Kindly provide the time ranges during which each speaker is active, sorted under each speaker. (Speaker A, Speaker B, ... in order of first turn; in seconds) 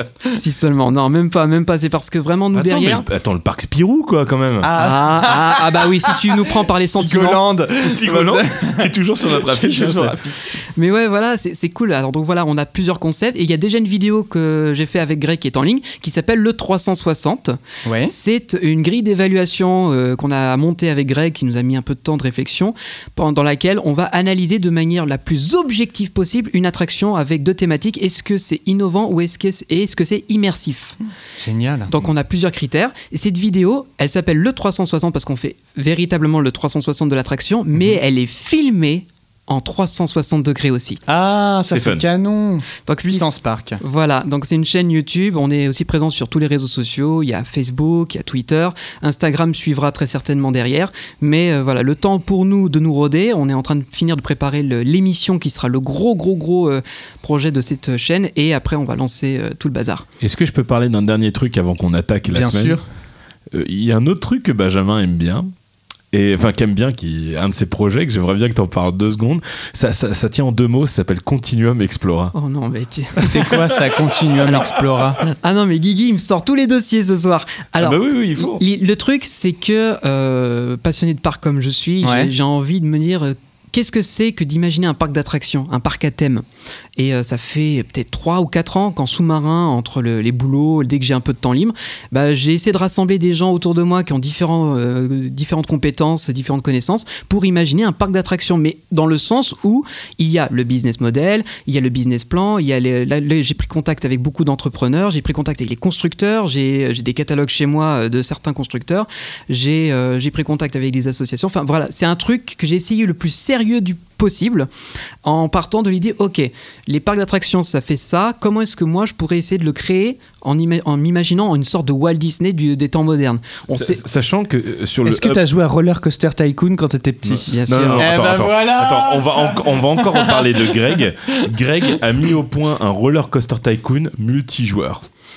Speaker A: 0.3-3.1, 4.8-7.4, 10.8-31.0, 31.9-41.0, 42.9-43.3, 43.8-60.1, 72.3-73.5, 75.2-86.4, 87.0-114.7, 115.2-124.0, 127.5-128.1
Speaker B: 2.5-4.7, 7.8-10.2, 41.7-42.0, 60.2-62.8, 63.5-65.5, 66.1-72.3, 73.2-73.5, 77.8-78.6, 123.7-125.4, 127.3-135.1
Speaker C: 4.6-10.5, 17.9-18.1, 31.4-31.9, 41.1-43.8, 62.3-62.8, 73.3-75.2, 82.0-82.3, 125.0-130.9